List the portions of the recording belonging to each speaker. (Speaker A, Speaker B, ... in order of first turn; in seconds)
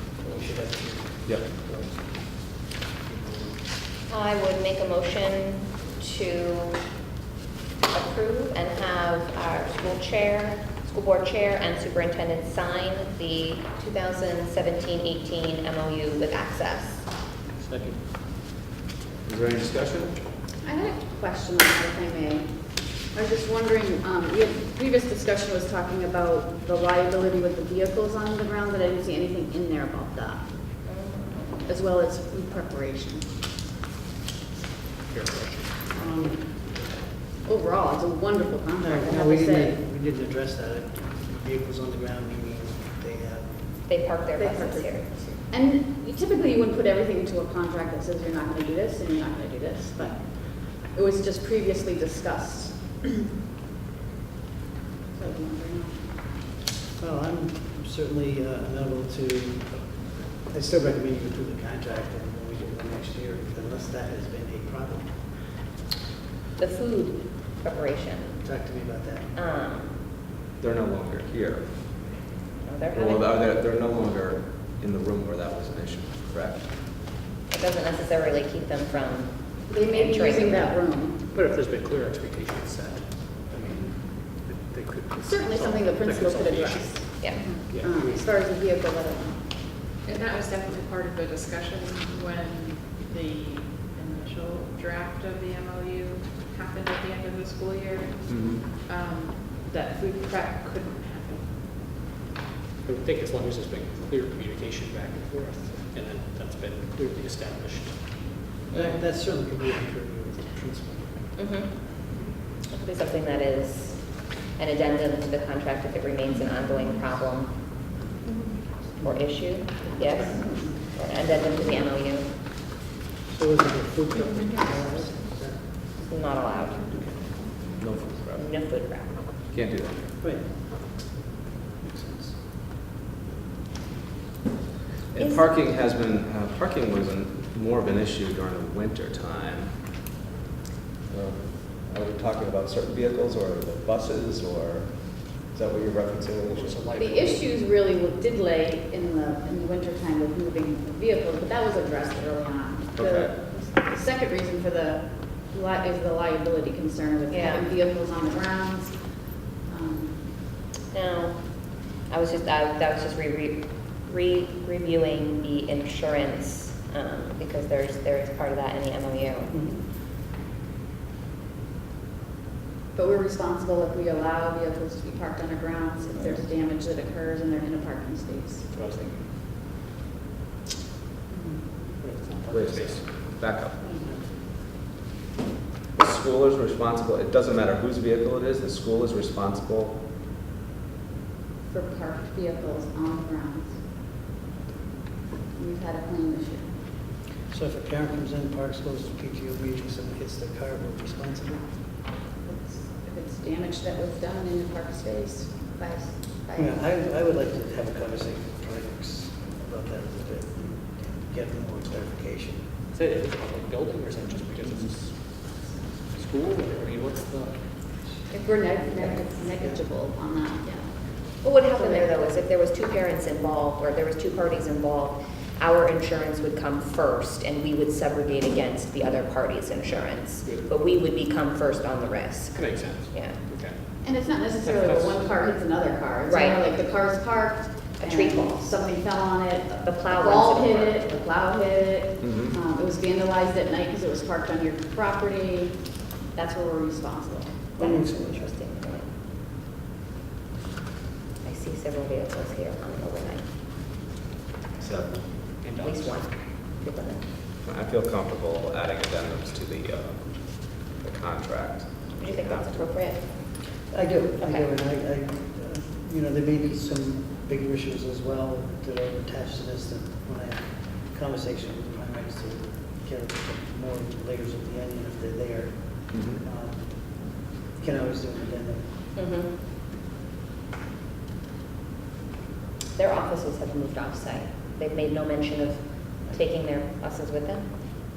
Speaker A: 0.2-3.6, 35.9-36.8, 38.8-43.7, 57.0-65.4, 68.4-69.3, 108.7-111.4, 119.0-119.6, 123.3-125.9, 126.9-127.4, 130.2-132.7, 169.5-169.8, 197.5-201.7, 206.6-212.7, 247.8-248.5, 263.8-278.9
Speaker B: 4.1-6.9, 7.9-17.1, 30.9-31.7, 43.9-45.3, 66.6-68.4, 69.3-70.0, 72.6-73.3, 77.5-80.8, 87.2-87.7, 111.4-112.0, 112.7-117.7, 119.0-122.3, 126.0-126.8, 128.3-129.2, 135.2-135.5, 157.3-157.7, 160.9-169.5, 221.4-233.4, 236.2-236.6, 238.0-238.7, 239.8-241.1, 247.8-249.1, 251.4-253.5, 255.8-257.2, 262.2-263.6, 264.4-264.6, 279.1-279.5, 283.0-287.7
Speaker C: 17.5-18.0, 35.1-36.0, 81.3-88.3, 102.8-109.0, 146.5-147.5, 178.7-179.3, 182.0-183.2, 212.9-215.2, 216.1-217.6, 230.4-230.8, 232.5-234.0, 234.6-235.5, 255.6-256.3
Speaker D: 19.2-20.2, 70.6-72.1, 72.9-76.7, 98.3-98.7, 127.8-128.5, 129.5-130.1, 135.1-139.8, 141.1-146.8, 152.9-153.3, 182.5-183.8, 185.9-190.0, 242.2-242.6, 254.8-255.5, 257.6-262.9, 276.1-276.4
Speaker E: 20.6-30.5, 31.7-33.3, 37.4-39.8, 44.4-53.2, 55.1-56.1, 79.7-81.2, 85.2-89.4, 147.0-160.3, 172.9-178.7, 191.7-193.8, 195.5-196.7, 202.4-206.8, 218.3-221.2, 221.7-222.1, 234.0-247.6
Speaker F: 90.0-101.5